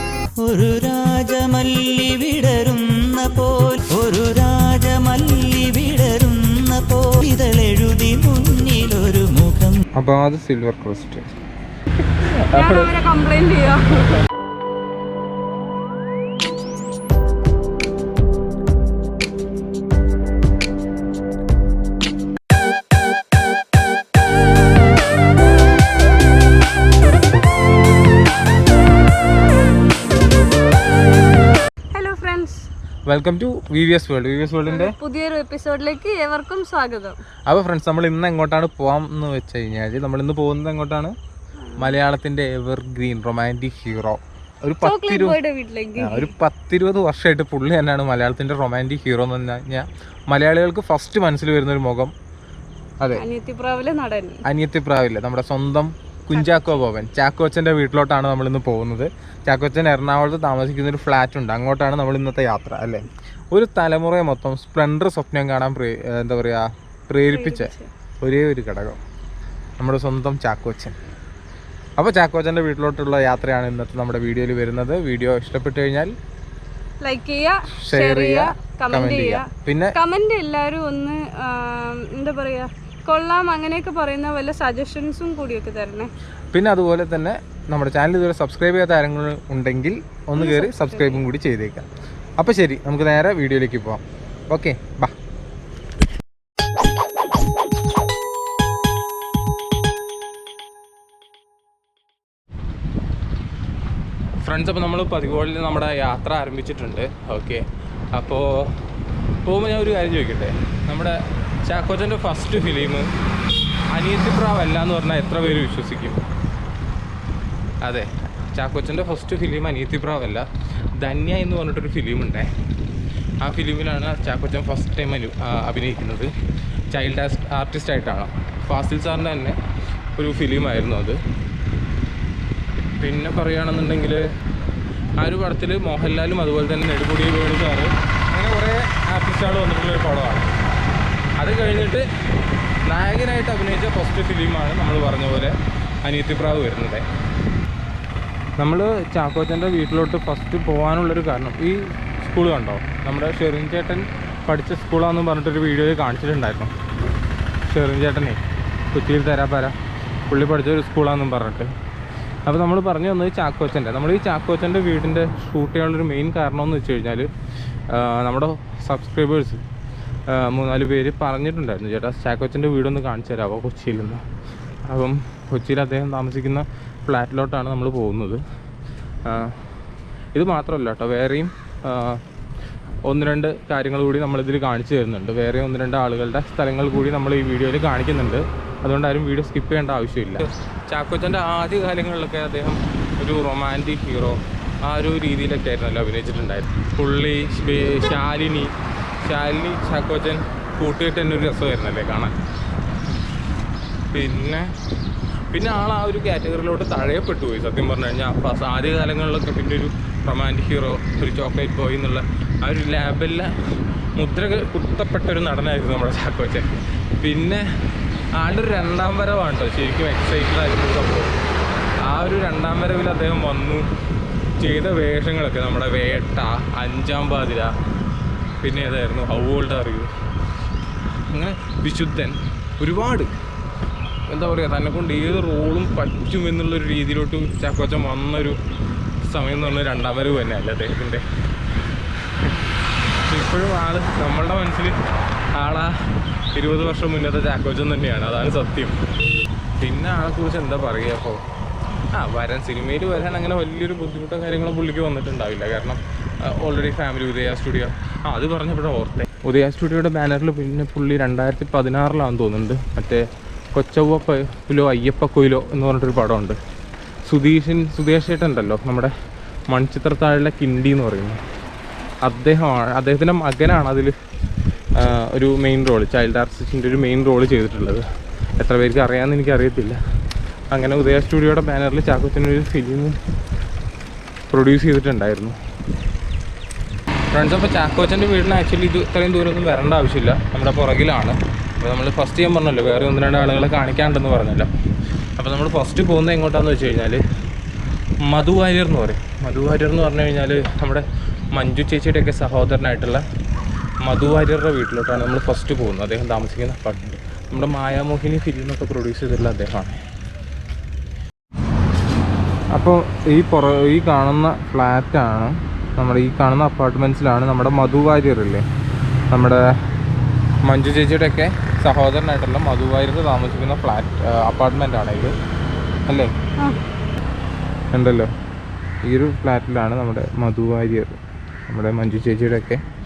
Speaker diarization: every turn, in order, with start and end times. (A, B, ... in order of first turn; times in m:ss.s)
0:00.4-0:09.8 A
0:10.0-0:11.2 B
0:12.1-0:12.9 B
0:12.5-0:14.2 C
0:32.0-0:32.7 C
0:33.1-0:35.0 B
0:34.7-0:37.2 C
0:37.5-0:41.2 B
0:41.8-0:45.4 B
0:44.8-0:46.3 C
0:46.0-0:52.1 B
0:53.1-0:54.4 C
0:54.4-1:09.0 B
0:56.3-0:56.9 C
1:07.3-1:07.9 C
1:09.8-1:11.0 B
1:12.0-1:16.1 B
1:17.0-1:26.1 C
1:17.7-1:20.0 B
1:26.5-1:31.9 B
1:30.4-1:31.3 C
1:32.4-1:35.2 B
1:44.4-1:48.8 B
1:49.4-1:53.1 B
1:53.9-1:56.2 B
1:57.8-2:00.5 B
2:01.0-2:02.5 B
2:03.4-2:06.3 B
2:06.9-2:09.6 B
2:10.2-2:11.2 B
2:13.0-2:14.3 B
2:15.2-2:20.5 B
2:21.4-2:22.1 B
2:22.9-2:27.1 B
2:28.6-2:36.7 B
2:37.6-2:38.4 B
2:38.9-2:39.8 B
2:40.3-2:41.7 B
2:42.5-2:47.3 B
2:47.9-2:49.6 B
2:50.3-2:54.2 B
2:54.8-2:58.4 B
2:59.2-2:59.6 B
3:00.3-3:02.2 B
3:03.0-3:22.4 B
3:24.1-3:24.7 B
3:25.5-3:33.5 B
3:34.2-3:37.7 B
3:38.4-3:41.3 B
3:42.0-3:43.9 B
3:44.6-3:47.7 B
3:48.6-3:50.1 B
3:51.3-3:53.3 B
3:54.3-3:58.6 B
3:59.2-4:01.3 B
4:02.4-4:02.7 B
4:03.2-4:05.0 B
4:05.6-4:09.0 B
4:09.8-4:11.4 B
4:12.1-4:26.6 B
4:27.2-4:29.1 B
4:29.7-4:31.4 B
4:32.2-4:34.1 B
4:35.0-4:38.0 B
4:38.6-4:40.0 B
4:40.7-4:43.2 B
4:44.5-4:45.6 B
4:47.3-4:54.7 B
4:55.4-4:57.2 B
4:58.2-5:03.2 B
5:04.0-5:10.0 B
5:12.7-5:18.6 B
5:19.3-5:19.7 B
5:20.6-5:25.4 B
5:26.1-5:26.3 B
5:27.9-5:28.3 B
5:29.0-5:32.8 B